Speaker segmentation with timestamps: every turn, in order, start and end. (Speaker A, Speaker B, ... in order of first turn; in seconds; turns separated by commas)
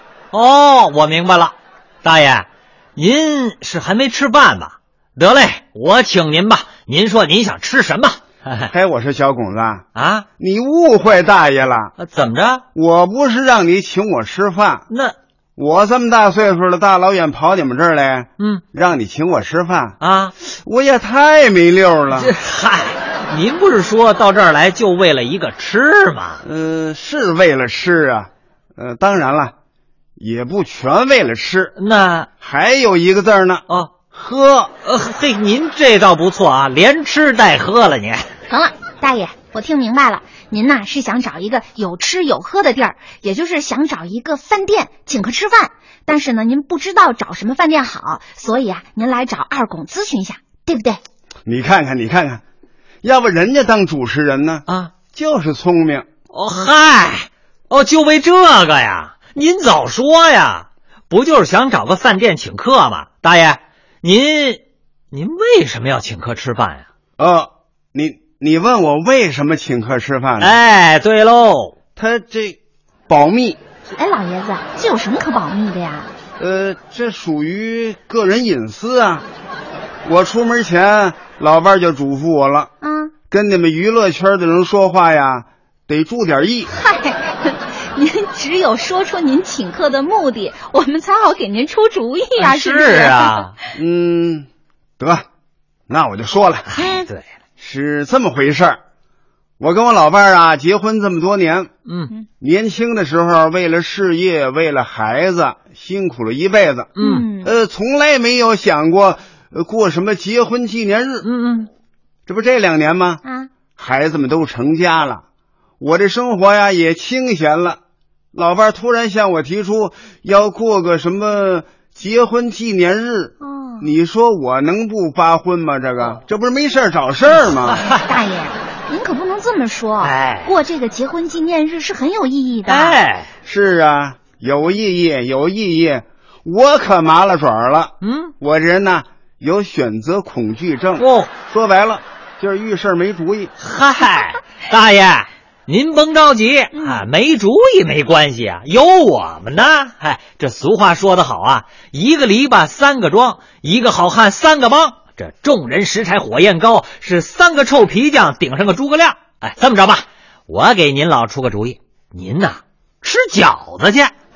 Speaker A: 0.3-8.7, Speaker B: 8.7-9.9, Speaker A: 9.9-10.2, Speaker B: 10.4-11.9, Speaker A: 12.0-12.6, Speaker B: 12.8-14.9, Speaker A: 14.9-15.2, Speaker B: 15.6-20.0, Speaker A: 20.0-20.3, Speaker B: 20.5-22.3, Speaker A: 22.1-26.4, Speaker B: 26.4-29.5, Speaker B: 30.2-31.8, Speaker A: 31.8-32.3, Speaker B: 32.4-34.7, Speaker A: 34.9-38.2, Speaker C: 38.5-51.0, Speaker B: 51.5-52.4, Speaker B: 53.0-56.1, Speaker A: 54.7-54.9, Speaker A: 56.3-66.8, Speaker B: 67.2-70.6, Speaker A: 70.4-71.8, Speaker B: 72.0-72.6, Speaker B: 73.1-73.6, Speaker C: 73.9-76.1, Speaker B: 76.4-79.2, Speaker B: 80.0-82.7, Speaker C: 82.8-83.1, Speaker B: 83.3-86.7, Speaker C: 86.8-93.5, Speaker A: 92.4-93.5, Speaker B: 93.8-94.5, Speaker B: 95.0-95.2, Speaker B: 95.9-96.7, Speaker A: 96.7-97.2, Speaker C: 96.8-97.1, Speaker B: 97.6-98.8, Speaker B: 99.6-101.7, Speaker A: 101.9-102.1, Speaker B: 102.4-106.9, Speaker A: 107.0-107.3, Speaker C: 107.0-107.5, Speaker B: 107.4-111.3, Speaker A: 111.2-111.7, Speaker B: 112.3-113.2, Speaker C: 113.2-113.5, Speaker B: 113.8-115.2, Speaker B: 115.8-117.8, Speaker B: 118.3-127.9, Speaker C: 123.4-123.9, Speaker A: 127.3-128.1, Speaker C: 128.1-133.0, Speaker A: 130.0-130.5, Speaker A: 132.7-133.3, Speaker B: 133.4-143.5, Speaker A: 138.0-138.3, Speaker A: 141.0-141.3, Speaker A: 143.6-164.1